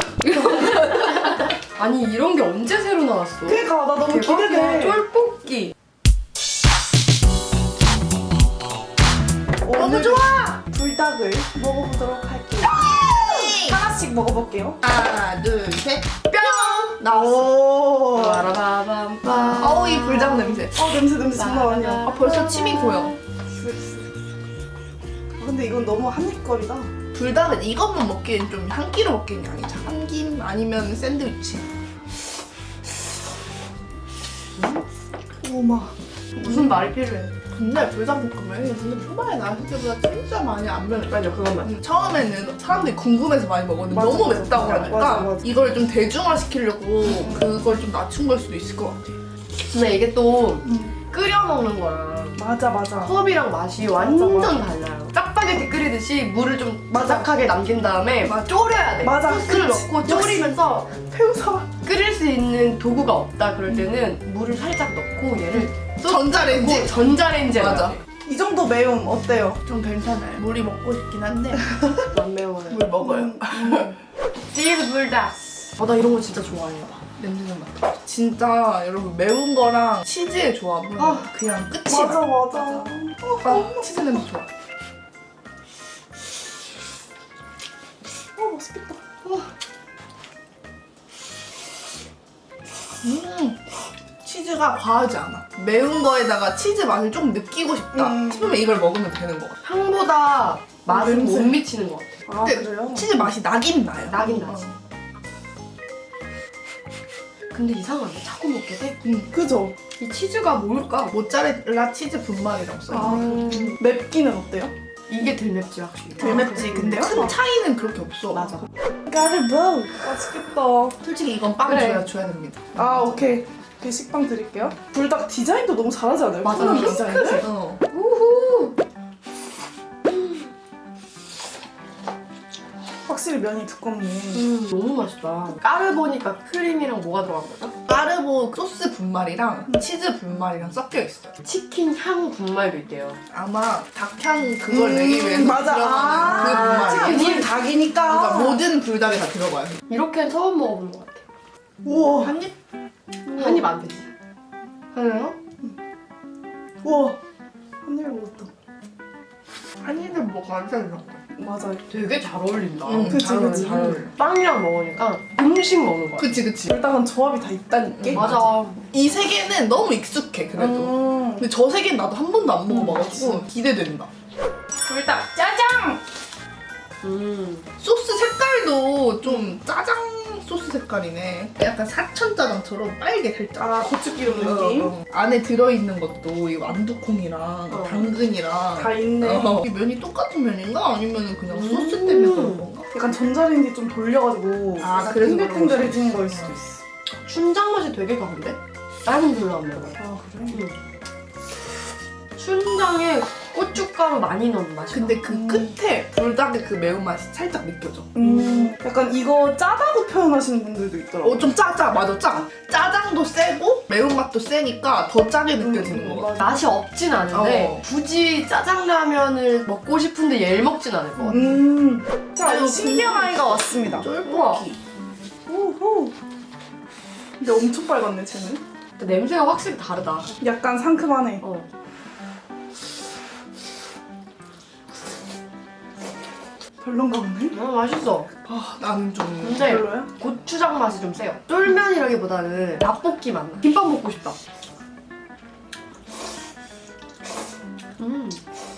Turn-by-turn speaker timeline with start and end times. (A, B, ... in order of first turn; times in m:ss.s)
0:00.2-0:05.7 A
0:03.4-0:05.0 B
0:09.6-0:14.8 B
0:09.7-0:10.6 C
0:12.6-0:13.8 C
0:14.8-0:18.0 C
0:16.3-0:17.4 A
0:17.5-0:18.4 B
0:18.1-0:20.6 A
0:19.2-0:20.9 C
0:20.6-0:22.1 B
0:21.3-0:23.2 A
0:22.0-0:23.2 C
0:23.6-0:24.1 B
0:25.4-0:26.9 B
0:27.1-0:31.6 C
0:34.6-0:34.8 A
0:35.4-0:35.9 C
0:36.4-0:37.3 A
0:37.5-0:49.1 C
0:41.1-0:41.7 A
0:43.9-0:45.4 B
0:44.6-0:45.0 A
0:49.7-0:52.4 A
0:50.6-0:50.9 B
0:52.4-0:53.1 B
0:53.0-1:00.9 A
0:53.8-0:54.6 B
0:56.9-0:57.4 B
0:59.0-1:01.7 B
1:01.8-1:08.0 A
1:06.0-1:08.0 C
1:08.2-1:09.6 B
1:09.6-1:11.6 C
1:11.7-1:12.0 B
1:12.1-1:12.9 A
1:12.7-1:13.9 C
1:13.0-1:14.0 B
1:14.5-1:17.0 A
1:17.2-1:22.8 C
1:21.0-1:21.3 A
1:21.8-1:24.2 B
1:23.4-1:24.5 C
1:28.4-1:29.0 B
1:33.0-1:33.6 C
1:34.2-1:39.6 C
1:38.0-1:38.5 B
1:39.6-1:42.2 A
1:40.9-1:41.6 B
1:42.3-1:43.2 B
1:42.4-1:44.7 C
1:44.1-1:44.6 A
1:47.5-1:49.0 A
1:49.0-1:49.3 C
1:49.3-1:49.7 B
1:50.0-1:51.1 A
1:51.1-1:53.3 C
1:52.9-1:54.7 B
1:53.0-1:53.8 A
1:55.1-1:57.1 A
1:56.2-1:57.4 B
1:56.2-1:58.6 C
1:58.3-1:58.7 A
1:59.0-2:01.0 B
2:01.0-2:03.3 C
2:01.6-2:02.0 A
2:02.7-2:07.5 B
2:06.4-2:08.8 A
2:06.6-2:07.8 C
2:10.1-2:10.5 A
2:13.1-2:14.4 B
2:14.3-2:17.8 A
2:17.9-2:21.3 C
2:21.4-2:23.2 A
2:23.3-2:27.5 C
2:24.7-2:28.6 B
2:26.3-2:27.5 A
2:28.0-2:29.8 C
2:29.9-2:31.2 A
2:31.8-2:32.3 B
2:32.1-2:32.5 C
2:33.3-2:34.1 A
2:34.9-2:35.4 A
2:36.8-2:37.2 B
2:37.8-2:38.5 B
2:39.8-2:41.2 C
2:41.3-2:41.8 B
2:41.9-2:46.4 A
2:42.9-2:44.1 C
2:43.0-2:44.0 B
2:46.2-2:46.7 C
2:46.7-2:48.2 B
2:48.0-2:54.1 C
2:48.1-2:48.8 A
2:50.6-2:51.4 B
2:52.7-2:53.4 B
2:54.8-2:56.0 B
2:57.0-2:57.7 A
2:57.8-3:12.9 C
3:03.6-3:04.9 B
3:07.7-3:08.1 A
3:08.8-3:09.6 B
3:11.5-3:12.7 A
3:12.9-3:16.8 B
3:14.8-3:16.5 C
3:17.2-3:20.8 A
3:20.0-3:20.6 B
3:22.4-3:25.2 A
3:24.9-3:28.2 C
3:25.3-3:25.7 B
3:28.1-3:31.5 B
3:28.2-3:28.7 A
3:31.2-3:36.3 C
3:35.6-3:36.6 B
3:36.4-3:41.4 A
3:37.3-3:37.8 C
3:41.2-3:41.6 C
3:41.3-3:44.1 B
3:42.4-3:44.8 C
3:43.1-3:43.3 A
3:44.2-3:44.7 A
3:45.5-3:46.1 B
3:47.4-3:48.6 B
3:49.0-3:50.3 A
3:50.4-3:51.4 B
3:51.4-3:51.7 A
3:56.8-3:57.6 B
3:57.5-3:58.3 A
3:58.4-3:59.8 C
3:59.4-4:04.4 A
3:59.6-4:00.1 B
4:08.0-4:08.4 A